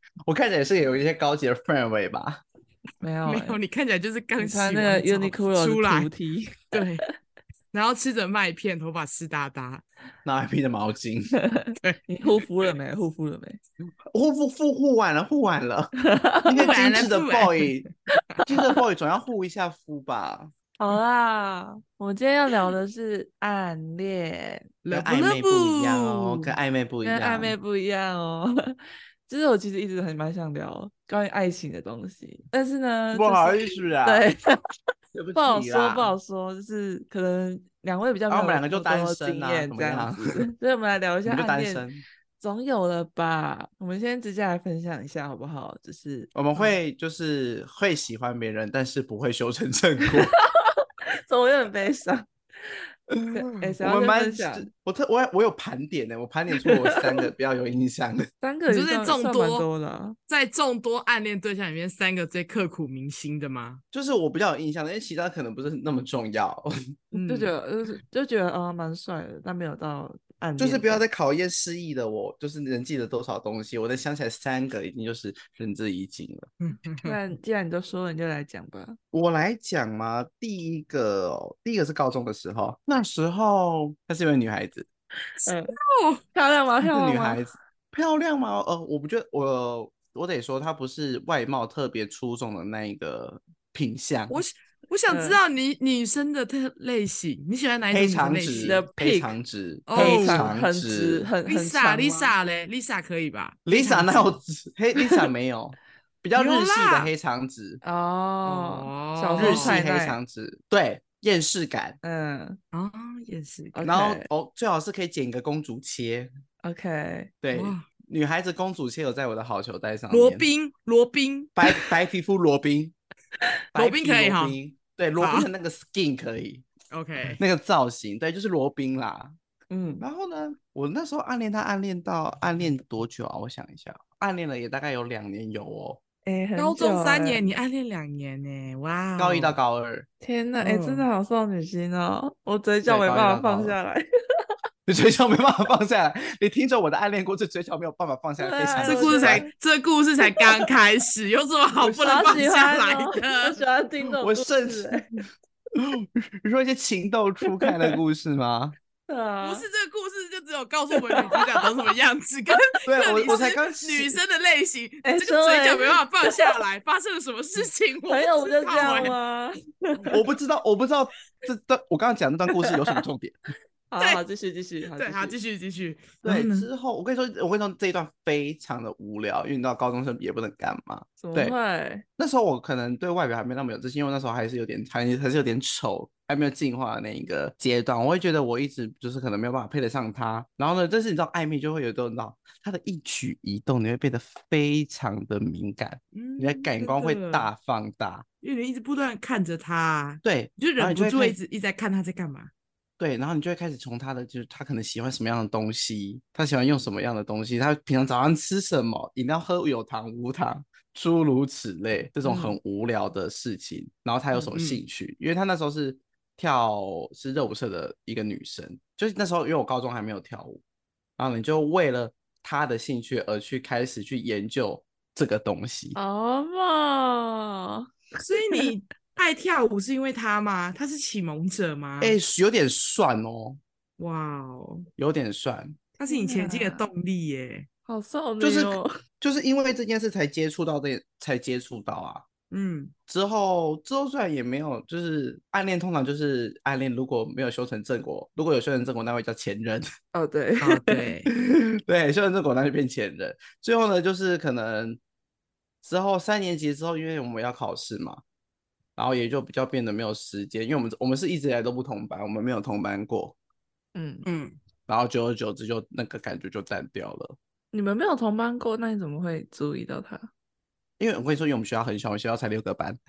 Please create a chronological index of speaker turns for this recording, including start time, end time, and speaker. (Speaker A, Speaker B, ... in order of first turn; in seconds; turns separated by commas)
Speaker A: 0.2-2.4, Speaker B: 3.0-3.6, Speaker C: 3.3-6.1, Speaker B: 4.4-6.8, Speaker C: 6.7-7.0, Speaker C: 7.7-9.8, Speaker A: 10.2-11.3, Speaker B: 11.4-13.6, Speaker C: 11.8-12.4, Speaker A: 14.1-15.9, Speaker B: 16.0-16.6, Speaker A: 16.4-17.9, Speaker C: 16.6-17.8, Speaker B: 18.3-18.8, Speaker A: 18.4-20.5, Speaker B: 20.8-24.7, Speaker C: 24.9-26.5, Speaker A: 24.9-27.5, Speaker B: 27.0-28.8, Speaker B: 29.3-34.5, Speaker A: 33.1-34.3, Speaker A: 35.1-36.2, Speaker B: 35.4-41.9, Speaker A: 38.3-40.4, Speaker A: 41.3-42.0, Speaker B: 42.4-46.7, Speaker A: 46.4-50.3, Speaker B: 50.3-52.3, Speaker A: 53.1-58.3, Speaker B: 53.3-54.7, Speaker B: 56.6-57.0, Speaker B: 58.4-60.2, Speaker C: 58.7-59.7, Speaker C: 60.3-63.8, Speaker A: 63.9-66.7, Speaker C: 67.1-67.5, Speaker B: 67.2-71.0, Speaker A: 70.6-76.5, Speaker C: 76.6-77.2, Speaker B: 77.0-79.0, Speaker A: 79.1-84.9, Speaker B: 85.4-85.8, Speaker C: 85.8-86.2, Speaker B: 86.3-87.5, Speaker A: 86.9-94.4, Speaker C: 94.3-98.8, Speaker B: 95.1-95.4, Speaker A: 97.9-101.3, Speaker B: 98.6-99.4, Speaker C: 99.9-100.5, Speaker B: 99.9-102.3, Speaker C: 101.5-104.4, Speaker A: 103.7-107.8, Speaker C: 106.4-107.1, Speaker B: 107.8-110.2, Speaker C: 108.5-109.8, Speaker A: 109.4-112.0, Speaker B: 112.0-112.6, Speaker C: 112.7-113.8, Speaker B: 113.8-114.3, Speaker A: 113.8-116.3, Speaker B: 116.6-117.3, Speaker A: 117.4-120.5, Speaker C: 117.5-117.9, Speaker C: 120.1-121.5, Speaker A: 121.6-123.0, Speaker A: 123.7-126.7, Speaker C: 123.8-124.6, Speaker C: 125.2-125.5, Speaker C: 126.9-127.4, Speaker A: 127.3-129.3, Speaker B: 129.7-130.1, Speaker A: 130.0-136.0, Speaker B: 136.2-137.5, Speaker C: 136.6-139.6, Speaker A: 139.2-140.1, Speaker B: 140.2-144.4, Speaker C: 140.6-141.1, Speaker A: 142.9-143.8, Speaker A: 144.9-149.4, Speaker B: 148.4-149.5, Speaker C: 148.8-153.6, Speaker B: 151.8-155.1, Speaker A: 154.2-155.0, Speaker A: 155.8-158.8, Speaker B: 159.1-159.7, Speaker C: 159.4-169.2, Speaker B: 161.0-161.7, Speaker A: 162.9-164.2, Speaker B: 165.1-166.6, Speaker B: 168.1-170.1, Speaker A: 170.1-173.3, Speaker B: 173.9-175.4, Speaker C: 175.0-176.7, Speaker A: 176.2-181.6, Speaker B: 181.2-182.0, Speaker A: 182.2-198.2, Speaker C: 196.2-197.5, Speaker C: 198.4-202.5, Speaker A: 200.2-201.4, Speaker A: 203.0-220.6, Speaker B: 212.2-212.6, Speaker C: 214.6-214.8, Speaker A: 221.2-226.0, Speaker B: 225.9-227.9, Speaker C: 228.2-232.2, Speaker A: 232.0-233.6, Speaker C: 234.0-234.9, Speaker A: 235.0-235.8, Speaker C: 236.0-237.7, Speaker B: 236.1-236.9, Speaker B: 237.9-238.9, Speaker A: 238.4-242.2, Speaker C: 242.5-242.9, Speaker A: 243.1-249.9, Speaker B: 250.1-251.1, Speaker C: 250.6-251.3, Speaker A: 251.3-255.0, Speaker A: 255.8-258.2, Speaker A: 259.0-263.4, Speaker B: 263.9-264.3, Speaker C: 264.2-264.6, Speaker A: 264.9-267.4, Speaker B: 267.7-270.3, Speaker A: 271.0-273.0